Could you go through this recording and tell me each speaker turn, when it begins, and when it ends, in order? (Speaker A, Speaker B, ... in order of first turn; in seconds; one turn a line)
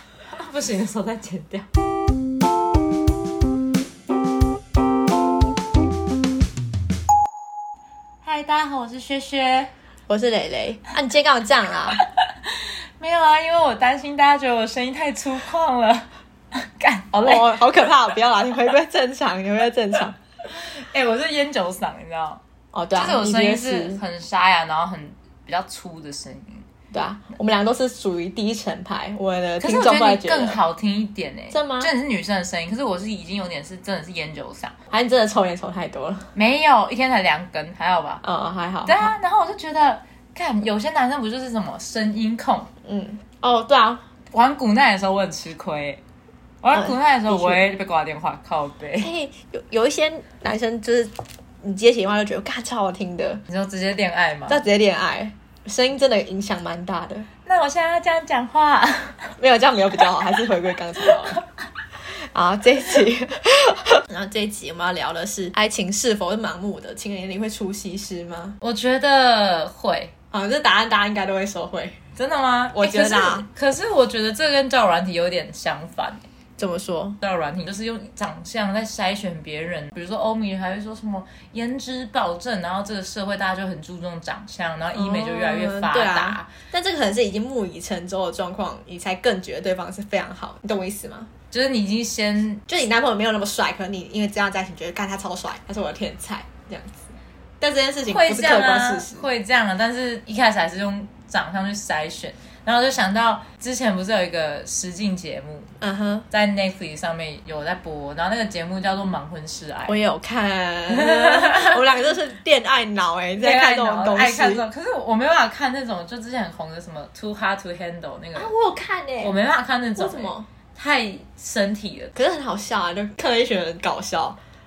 Speaker A: 0.3-1.7
Speaker A: 8.2-9.7
Speaker B: 10.1-12.0
Speaker A: 12.0-17.6
Speaker B: 17.2-20.1
Speaker A: 20.4-22.4
Speaker B: 22.7-24.0
Speaker A: 22.9-26.7
Speaker B: 26.9-30.6
Speaker A: 29.6-34.7
Speaker B: 31.5-31.9
Speaker B: 34.9-36.3
Speaker A: 36.3-38.2
Speaker B: 38.2-39.1
Speaker A: 38.9-42.7
Speaker B: 42.9-44.0
Speaker A: 44.3-46.0
Speaker A: 46.6-49.1
Speaker B: 46.7-47.6
Speaker B: 49.0-53.4
Speaker A: 53.5-54.6
Speaker B: 54.5-57.3
Speaker A: 57.4-59.3
Speaker B: 59.4-61.4
Speaker A: 61.0-61.4
Speaker B: 62.3-68.6
Speaker A: 68.6-70.1
Speaker B: 70.3-72.0
Speaker A: 72.2-76.2
Speaker B: 72.8-73.5
Speaker B: 76.6-77.2
Speaker A: 77.2-86.5
Speaker B: 84.9-91.3
Speaker A: 91.5-92.6
Speaker B: 92.7-99.2
Speaker A: 98.1-105.7
Speaker B: 105.8-106.3
Speaker A: 106.3-110.0
Speaker B: 109.9-114.6
Speaker A: 110.9-111.8
Speaker A: 113.4-118.5
Speaker B: 118.3-119.3
Speaker A: 119.2-122.1
Speaker B: 120.0-120.5
Speaker B: 122.1-124.4